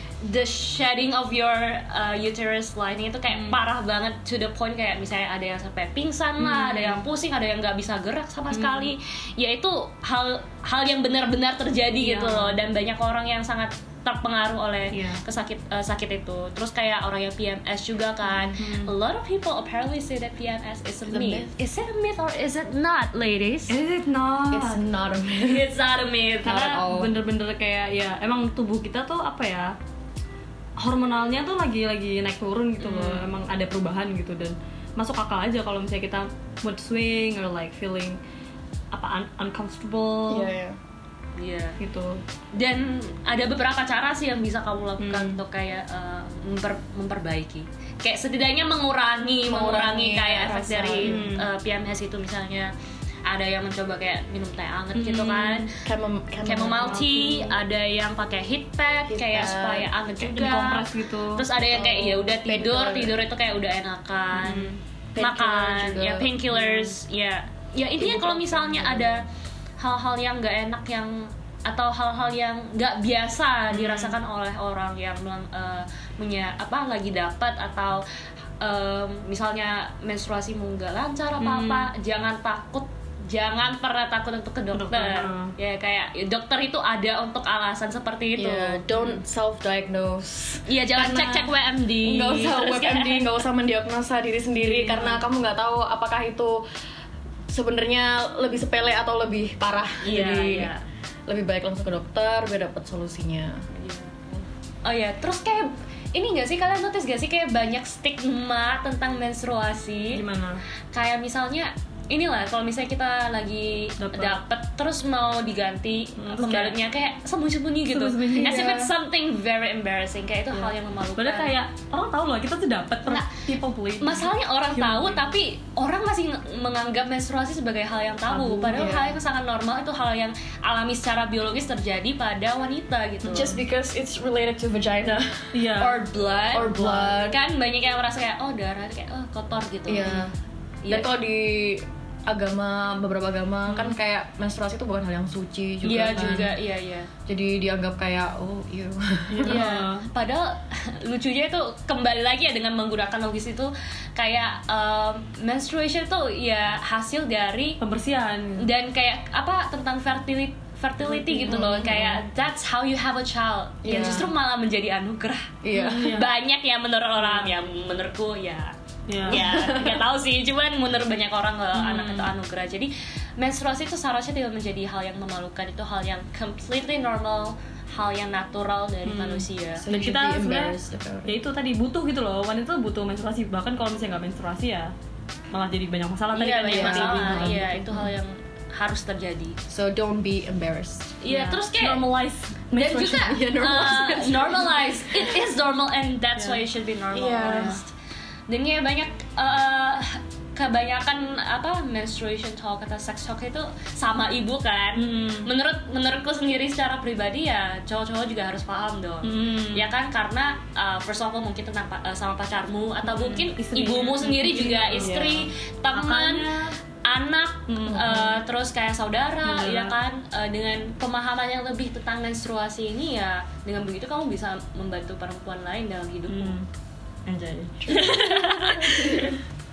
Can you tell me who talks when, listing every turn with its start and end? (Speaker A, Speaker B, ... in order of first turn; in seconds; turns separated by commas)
Speaker A: 0.2-23.8, Speaker B: 3.3-3.6, Speaker B: 6.4-7.0, Speaker B: 8.5-8.9, Speaker B: 11.9-12.6, Speaker B: 14.9-15.2, Speaker B: 18.6-18.9, Speaker C: 21.1-21.5, Speaker B: 23.7-24.8, Speaker C: 24.5-25.7, Speaker A: 25.4-26.6, Speaker B: 26.4-29.7, Speaker C: 26.4-27.2, Speaker B: 30.8-38.2, Speaker A: 32.8-33.3, Speaker B: 38.9-40.5, Speaker C: 40.3-40.8, Speaker A: 41.4-41.8, Speaker B: 41.8-42.2, Speaker A: 42.5-52.7, Speaker B: 45.0-45.4, Speaker C: 49.4-51.2, Speaker B: 51.0-51.5, Speaker A: 53.2-55.7, Speaker B: 54.9-55.7, Speaker C: 55.8-57.1, Speaker A: 56.4-69.2, Speaker B: 56.7-57.6, Speaker C: 59.1-59.9, Speaker B: 60.2-61.4, Speaker C: 61.7-63.2, Speaker B: 64.3-64.8, Speaker C: 65.1-66.8, Speaker C: 68.0-69.2, Speaker A: 69.8-78.0, Speaker B: 73.7-74.2, Speaker A: 78.6-89.2, Speaker B: 81.4-81.9, Speaker B: 84.7-85.5, Speaker C: 88.4-90.6, Speaker A: 90.7-93.4, Speaker B: 91.0-91.5, Speaker C: 92.0-96.6, Speaker A: 94.7-95.2, Speaker C: 97.5-100.7, Speaker A: 100.0-100.8, Speaker C: 101.3-103.6, Speaker A: 103.7-110.2, Speaker B: 110.1-110.6, Speaker A: 110.9-121.6, Speaker B: 114.0-114.4, Speaker B: 116.2-116.8, Speaker B: 117.9-118.8, Speaker C: 118.3-118.9, Speaker B: 120.5-125.2, Speaker A: 124.0-133.6, Speaker B: 128.3-128.9, Speaker C: 128.7-129.2, Speaker B: 133.2-133.6, Speaker C: 133.3-135.8, Speaker B: 135.5-136.0, Speaker A: 135.8-140.2, Speaker C: 136.5-137.4, Speaker C: 139.9-140.3, Speaker A: 140.8-141.1, Speaker C: 140.9-146.5, Speaker B: 145.8-146.5, Speaker A: 145.8-147.1, Speaker C: 147.3-149.6, Speaker B: 149.3-150.1, Speaker A: 149.4-157.8, Speaker B: 157.8-158.6, Speaker A: 158.6-168.7, Speaker B: 161.0-162.1, Speaker C: 161.4-162.2, Speaker C: 163.8-164.3, Speaker B: 163.8-164.3, Speaker C: 165.6-166.2, Speaker B: 165.7-166.3, Speaker B: 167.2-167.5, Speaker B: 169.1-169.4, Speaker A: 169.2-179.9, Speaker C: 169.3-170.0, Speaker B: 171.7-172.3, Speaker B: 179.1-184.9, Speaker C: 179.8-181.4, Speaker B: 185.5-187.6, Speaker A: 186.3-189.6, Speaker C: 186.7-188.1, Speaker C: 189.7-191.2, Speaker A: 191.2-192.2, Speaker B: 191.3-192.8, Speaker A: 192.7-197.8, Speaker C: 192.7-195.4, Speaker B: 196.4-196.6, Speaker C: 197.1-197.8, Speaker B: 197.4-197.8, Speaker A: 198.5-216.5, Speaker B: 204.9-205.5, Speaker B: 209.2-209.9, Speaker B: 213.0-216.8, Speaker A: 217.0-226.6, Speaker B: 217.7-218.4, Speaker B: 219.4-219.9, Speaker B: 226.3-226.7, Speaker B: 227.2-229.4, Speaker A: 227.9-229.3